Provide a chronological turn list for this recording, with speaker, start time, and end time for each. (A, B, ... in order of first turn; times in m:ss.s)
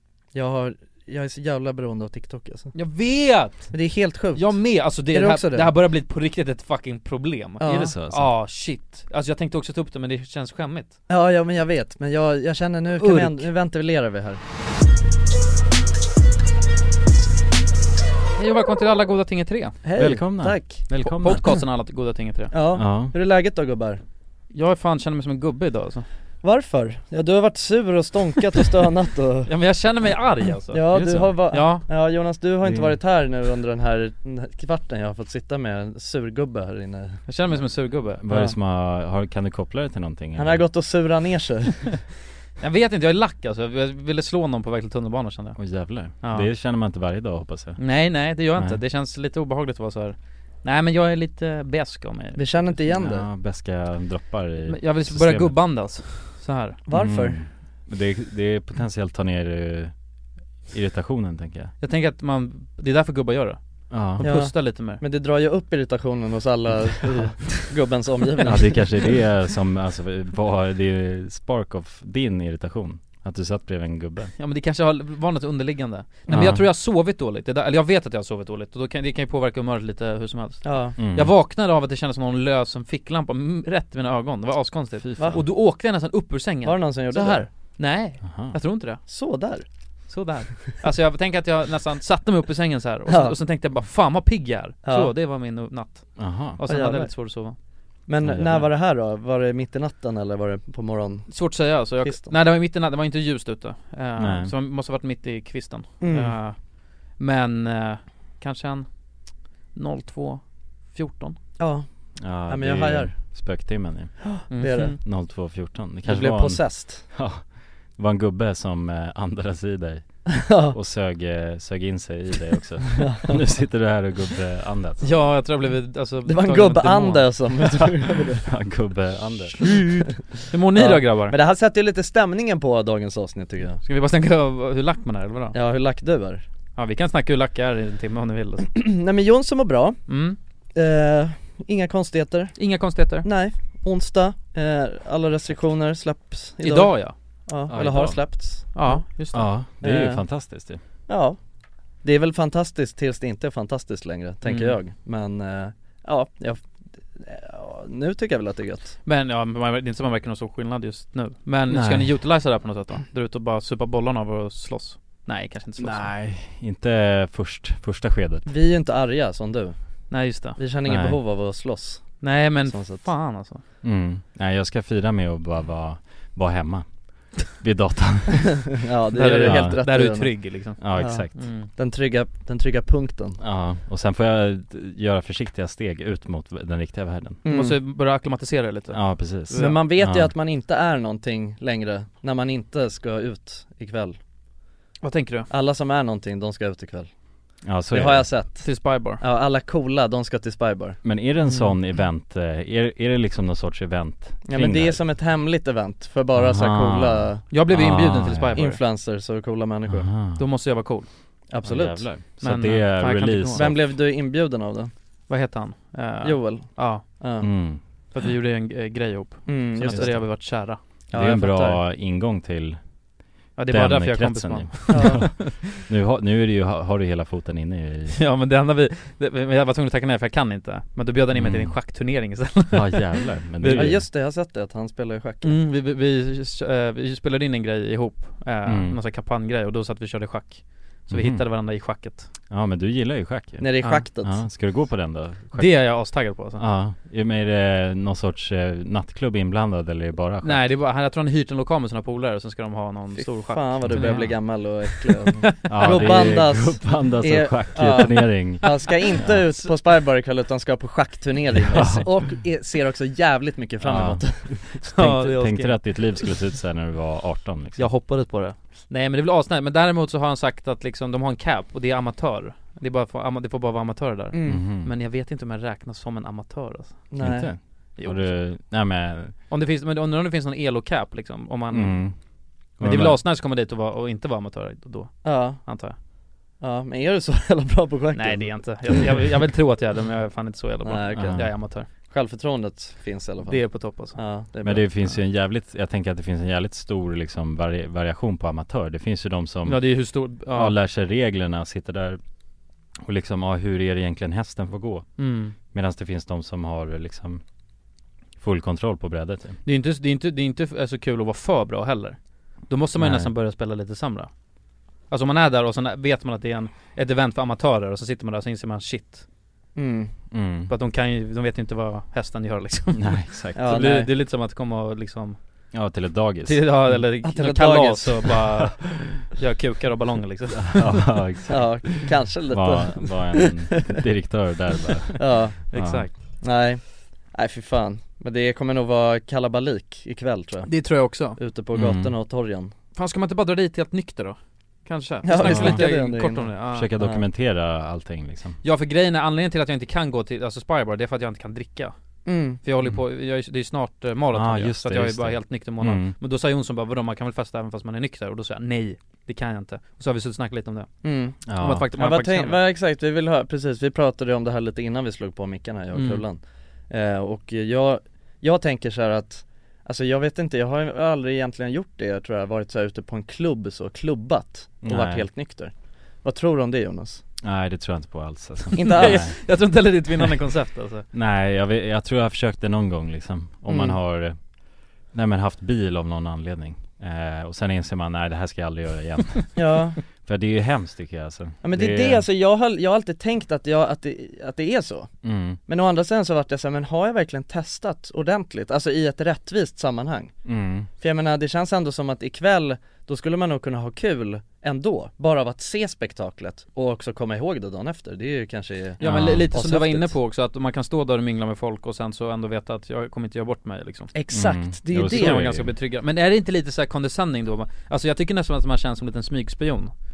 0:00.3-0:02.7 A
0:02.7-0:11.0 B
0:03.7-0:05.7 A
0:07.6-0:08.0 A
0:07.7-0:08.3 C
0:11.1-0:14.4 A
0:13.0-0:13.5 B
0:18.4-0:19.8 B
0:19.8-0:21.6 A
0:20.0-0:21.5 C
0:20.9-0:22.6 B
0:22.5-0:24.0 A
0:22.7-0:23.1 C
0:24.5-0:26.1 B
0:26.4-0:29.5 A
0:29.5-0:31.9 B
0:30.7-0:38.6 A
0:31.0-0:31.2 C
0:32.6-0:33.0 C
0:37.3-0:38.2 B
0:38.2-0:40.6 C
0:40.4-0:42.0 A
0:42.6-0:45.6 B
0:45.6-0:48.0 C
0:46.2-0:46.5 B
0:47.8-0:52.7 B
0:48.5-0:48.8 C
0:52.4-0:53.2 A
0:52.9-0:55.6 C
0:54.7-0:56.8 B
0:56.9-0:57.4 A
0:56.9-0:59.9 C
1:00.7-1:01.7 C
1:01.8-1:05.0 B
1:03.9-1:04.2 C
1:04.2-1:08.9 A
1:08.4-1:14.3 C
1:14.4-1:29.0 B
1:16.3-1:16.5 A
1:16.3-1:16.7 C
1:20.6-1:21.0 A
1:21.0-1:21.4 C
1:25.0-1:25.5 C
1:25.2-1:25.4 A
1:26.6-1:27.5 A
1:28.2-1:28.6 C
1:29.1-1:29.7 A
1:30.1-1:37.6 B
1:33.1-1:33.3 A
1:34.8-1:35.1 A
1:36.2-1:36.6 C
1:36.7-1:37.3 A
1:38.1-1:42.4 A
1:38.2-1:38.7 C
1:41.3-1:51.4 B
1:44.2-1:44.5 C
1:46.0-1:46.4 A
1:51.6-1:53.2 A
1:52.2-1:54.2 C
1:54.2-1:55.0 A
1:54.5-1:55.0 B
1:55.0-2:05.4 C
1:56.0-1:57.0 A
2:00.4-2:00.8 A
2:03.0-2:03.3 A
2:05.0-2:07.6 B
2:06.3-2:08.4 A
2:08.4-2:09.8 C
2:09.7-2:11.4 B
2:10.8-2:13.8 A
2:13.8-2:15.6 B
2:15.5-2:16.4 A
2:16.8-2:18.8 B
2:18.8-2:20.1 A
2:20.1-2:20.4 B
2:20.8-2:22.7 A
2:22.6-2:23.3 B
2:23.2-2:29.0 A
2:26.6-2:27.2 B
2:27.7-2:28.2 C
2:28.7-2:29.5 B
2:29.3-2:30.8 C
2:29.8-2:30.3 A
2:31.1-2:31.4 A
2:32.0-2:39.0 A
2:34.5-2:34.8 B
2:39.0-2:46.1 B
2:41.7-2:42.1 C
2:45.8-2:48.5 C
2:48.5-2:49.8 A
2:50.1-2:50.6 B
2:50.4-2:53.1 A
2:50.8-2:51.2 C
2:52.2-2:53.6 B
2:53.8-2:59.8 C
2:58.7-3:03.4 A
2:59.1-3:01.7 B
3:00.8-3:01.5 C
3:03.4-3:07.4 C
3:07.4-3:07.8 A
3:07.5-3:09.8 B
3:08.9-3:10.3 C
3:09.5-3:14.2 A
3:15.0-3:15.5 B
3:15.5-3:17.1 A
3:17.6-3:18.3 C
3:17.9-3:21.0 A
3:18.6-3:19.2 B
3:21.0-3:25.1 C
3:21.4-3:21.8 B
3:24.4-3:27.4 A
3:26.3-3:28.7 C
3:27.5-3:28.8 B
3:28.6-3:30.1 A
3:29.9-3:30.4 C
3:30.4-3:31.1 B
3:31.5-3:32.1 A
3:31.6-3:33.8 C
3:32.4-3:33.7 B
3:33.5-3:34.9 A
3:35.3-3:37.1 B
3:36.2-3:37.5 A
3:37.4-3:37.8 C
3:38.1-3:40.8 B
3:39.5-3:40.5 A
3:39.9-3:40.3 C
3:41.1-3:41.8 A
3:41.1-3:42.8 C
3:43.6-3:45.8 B
3:43.7-3:48.2 C
3:44.9-3:45.3 A
3:48.1-3:54.0 B
3:51.3-3:51.8 C
3:52.7-3:54.1 C
3:53.7-3:55.6 A
3:55.4-4:02.3 B
3:58.7-3:59.0 C
4:01.1-4:01.5 C
4:02.5-4:03.7 C
4:03.6-4:04.4 A
4:04.2-4:06.0 C
4:05.6-4:06.6 B
4:06.6-4:10.7 C
4:10.4-4:16.3 B
4:13.2-4:24.7 A
4:13.9-4:14.3 C
4:15.7-4:19.5 C
4:18.6-4:19.7 B
4:21.7-4:22.2 C
4:23.8-4:27.9 C
4:24.8-4:26.3 B
4:27.8-4:37.1 B
4:34.3-4:34.6 A
4:34.4-4:34.9 C
4:37.1-4:37.5 A
4:37.2-4:39.4 C
4:38.0-4:38.5 B
4:39.5-4:42.0 B
4:41.7-4:42.1 C
4:42.8-4:43.2 C
4:42.8-4:46.0 B
4:45.2-4:45.6 A
4:46.6-4:48.9 A
4:48.2-4:51.9 B
4:50.8-4:54.9 A
4:51.1-4:51.5 C
4:53.5-4:54.2 B
4:54.6-4:59.9 C
4:59.6-5:00.8 B
5:00.5-5:02.2 C
5:03.0-5:05.1 C
5:05.2-5:05.6 B
5:05.6-5:07.4 C
5:08.4-5:09.6 C
5:09.6-5:14.3 B
5:13.0-5:13.3 C
5:15.1-5:19.2 B
5:19.8-5:20.1 A
5:20.3-5:20.7 C
5:20.7-5:25.4 B
5:23.0-5:23.7 C
5:23.6-5:24.1 A
5:25.7-5:27.0 C
5:26.4-5:31.1 B
5:27.2-5:28.4 A
5:30.6-5:31.7 C
5:31.5-5:33.5 A
5:32.5-5:36.1 C
5:35.2-5:35.8 A
5:35.7-5:36.1 B
5:36.4-5:42.7 A
5:40.7-5:41.4 B
5:41.7-5:42.1 C
5:43.0-5:46.9 B
5:45.2-5:47.2 A
5:45.4-5:45.9 C
5:46.7-5:48.6 C
5:48.6-5:51.9 B
5:52.3-5:52.6 A
5:52.6-6:00.9 B
5:54.3-5:56.2 C
6:01.0-6:01.4 A
6:01.5-6:01.9 C
6:01.5-6:02.6 B
6:01.9-6:15.7 A
6:05.9-6:06.2 B
6:14.8-6:15.3 C
6:16.2-6:17.2 A
6:17.4-6:19.4 C
6:18.7-6:19.3 A
6:18.8-6:21.0 B
6:21.1-6:24.4 C
6:23.7-6:24.0 A
6:25.1-6:32.2 C
6:29.6-6:30.0 A
6:31.6-6:35.1 A
6:35.2-6:35.6 C
6:35.7-6:40.3 A
6:40.4-6:40.9 C
6:41.0-6:50.1 A
6:49.0-6:49.5 C
6:49.0-6:54.1 B
6:54.1-6:55.4 A
6:54.3-6:55.8 C
6:55.0-6:59.9 B